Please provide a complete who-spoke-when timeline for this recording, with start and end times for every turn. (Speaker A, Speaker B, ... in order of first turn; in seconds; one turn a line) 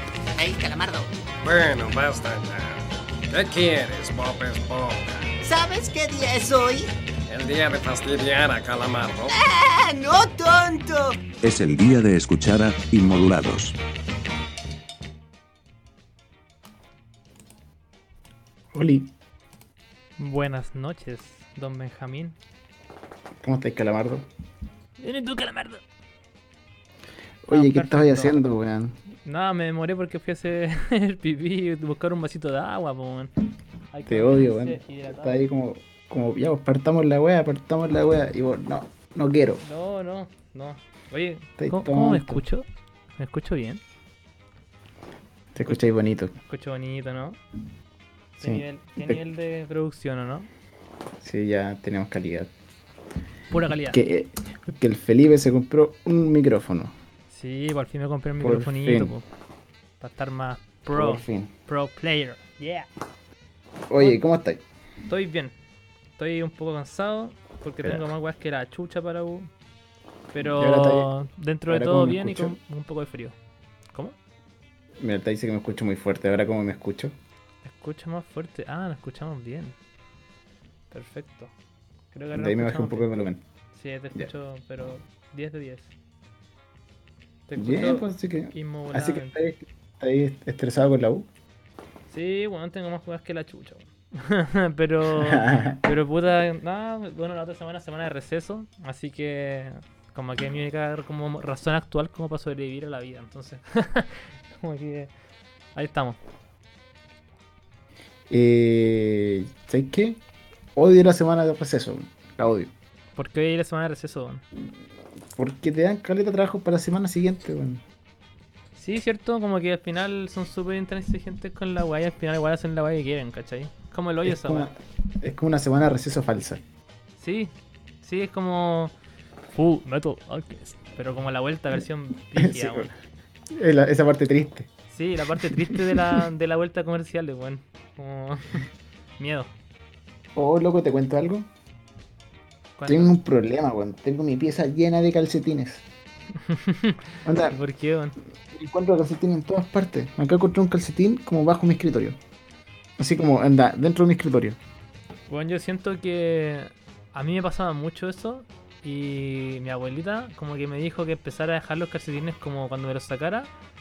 Speaker A: 0.4-1.1
Speaker B: 1.4-5.4
Speaker A: 5.4-6.9
Speaker B: 7.3-9.4
Speaker A: 9.4-11.3
Speaker C: 11.4-13.8
Speaker D: 18.7-19.1
Speaker E: 20.2-22.4
Speaker D: 23.4-24.3
Speaker E: 25.0-25.8
Speaker D: 27.5-29.0
Speaker E: 27.5-28.3
Speaker E: 29.2-33.3
Speaker E: 33.9-35.4
Speaker D: 34.1-39.6
Speaker E: 39.6-42.7
Speaker D: 41.6-42.4
Speaker E: 43.2-43.8
Speaker D: 45.5-46.4
Speaker E: 46.5-47.4
Speaker E: 48.4-50.5
Speaker D: 48.4-49.2
Speaker D: 51.2-52.5
Speaker E: 53.5-54.0
Speaker D: 53.9-57.0
Speaker E: 57.3-59.2
Speaker D: 58.4-59.1
Speaker E: 60.0-62.9
Speaker D: 60.9-61.5
Speaker D: 63.9-64.6
Speaker E: 65.1-65.5
Speaker E: 66.2-69.5
Speaker D: 67.8-68.1
Speaker E: 70.3-73.3
Speaker D: 70.4-71.1
Speaker D: 71.7-72.6
Speaker D: 75.0-77.2
Speaker E: 77.6-79.8
Speaker E: 80.9-81.5
Speaker E: 82.1-83.1
Speaker D: 82.3-83.4
Speaker E: 83.7-85.9
Speaker E: 87.5-89.4
Speaker D: 87.6-91.3
Speaker E: 92.1-105.1
Speaker D: 95.1-95.8
Speaker E: 105.8-106.2
Speaker D: 108.3-110.2
Speaker D: 110.8-112.7
Speaker E: 113.2-114.4
Speaker D: 115.4-117.8
Speaker E: 118.8-124.7
Speaker D: 124.2-126.6
Speaker E: 127.2-128.9
Speaker E: 129.5-132.9
Speaker D: 132.3-132.9
Speaker D: 133.5-134.7
Speaker E: 134.9-138.7
Speaker D: 135.4-136.2
Speaker E: 139.2-139.5
Speaker D: 140.4-141.5
Speaker E: 142.8-143.2
Speaker D: 142.9-145.8
Speaker E: 146.4-148.2
Speaker D: 147.2-147.6
Speaker D: 148.5-152.2
Speaker D: 153.0-154.6
Speaker E: 155.3-163.5